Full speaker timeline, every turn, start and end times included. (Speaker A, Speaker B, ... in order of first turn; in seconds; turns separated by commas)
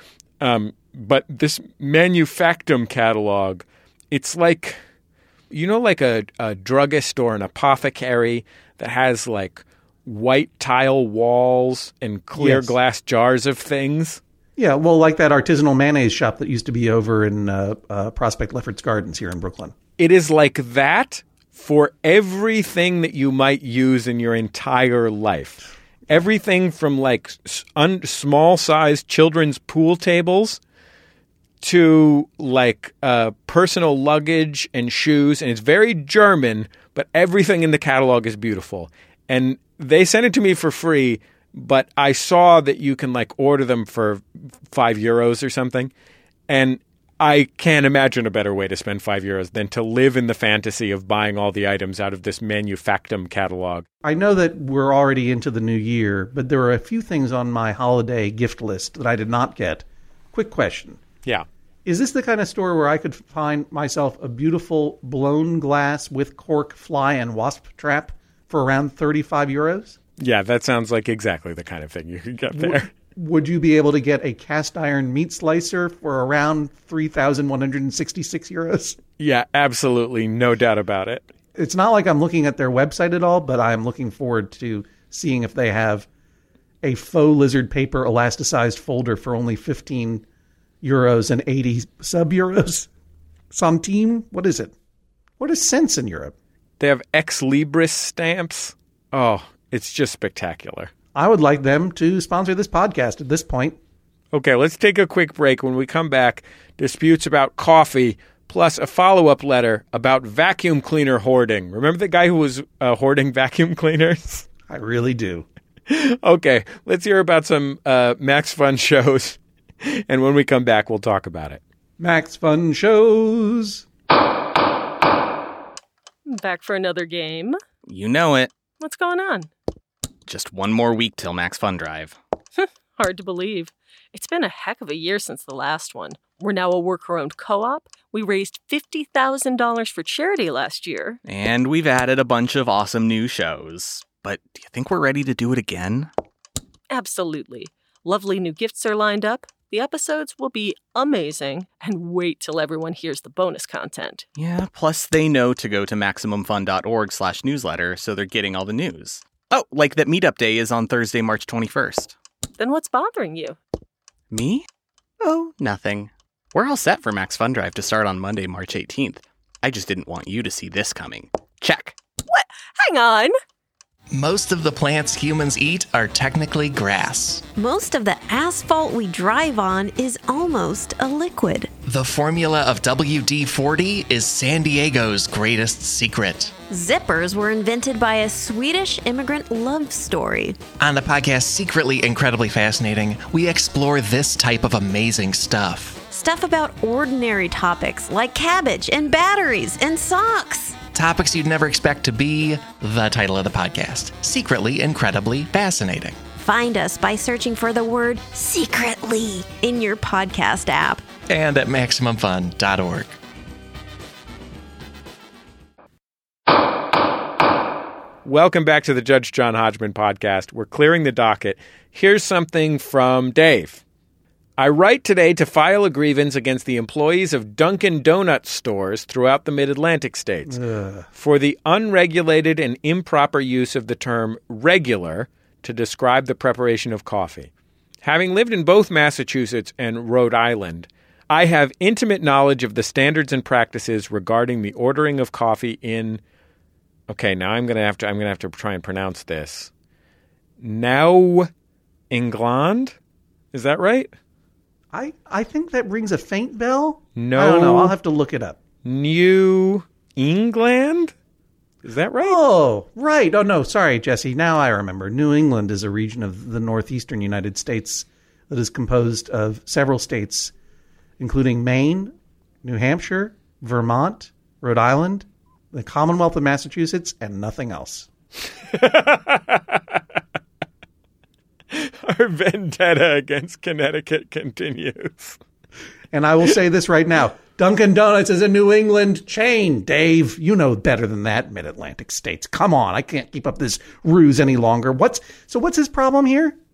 Speaker A: 0.4-4.8, Speaker A: 5.5-14.2, Speaker B: 12.3-12.7, Speaker B: 14.6-19.7, Speaker A: 20.0-30.6, Speaker A: 31.6-45.9, Speaker A: 46.5-53.8, Speaker B: 54.0-61.0, Speaker B: 61.8-70.0, Speaker A: 70.2-72.9, Speaker B: 72.5-79.0, Speaker A: 79.2-81.3, Speaker B: 81.5-86.1, Speaker B: 86.8-90.2, Speaker B: 90.8-92.9, Speaker B: 93.5-94.7, Speaker B: 95.4-96.3, Speaker A: 96.8-100.9, Speaker B: 101.1-103.8, Speaker A: 104.3-114.5, Speaker B: 114.7-115.5, Speaker A: 115.9-121.6, Speaker B: 122.0-123.8, Speaker C: 126.2-127.6, Speaker D: 127.9-128.5, Speaker C: 128.8-129.5, Speaker D: 130.3-132.2, Speaker C: 132.6-141.2, Speaker D: 141.2-146.1, Speaker C: 146.9-154.2, Speaker D: 154.3-162.1, Speaker C: 162.6-163.6, Speaker D: 164.3-164.7, Speaker B: 165.2-165.5, Speaker D: 165.6-172.0, Speaker C: 172.3-173.3, Speaker E: 174.1-177.4, Speaker F: 177.5-181.7, Speaker E: 181.8-186.5, Speaker F: 186.7-190.6, Speaker E: 190.8-196.0, Speaker F: 196.1-200.8, Speaker E: 200.9-206.2, Speaker F: 206.4-211.1, Speaker E: 211.2-213.2, Speaker A: 218.2-223.8, Speaker A: 224.6-230.6, Speaker B: 230.4-231.1, Speaker A: 231.1-237.5, Speaker A: 238.0-246.2, Speaker A: 247.1-249.7, Speaker A: 250.6-251.5, Speaker A: 252.1-252.9, Speaker A: 253.5-254.1, Speaker B: 254.9-258.6, Speaker A: 257.1-257.9, Speaker A: 258.8-261.1, Speaker A: 261.8-262.4, Speaker B: 262.2-270.5, Speaker B: 271.2-278.1, Speaker A: 278.7-280.0, Speaker A: 281.7-285.4, Speaker B: 286.1-296.6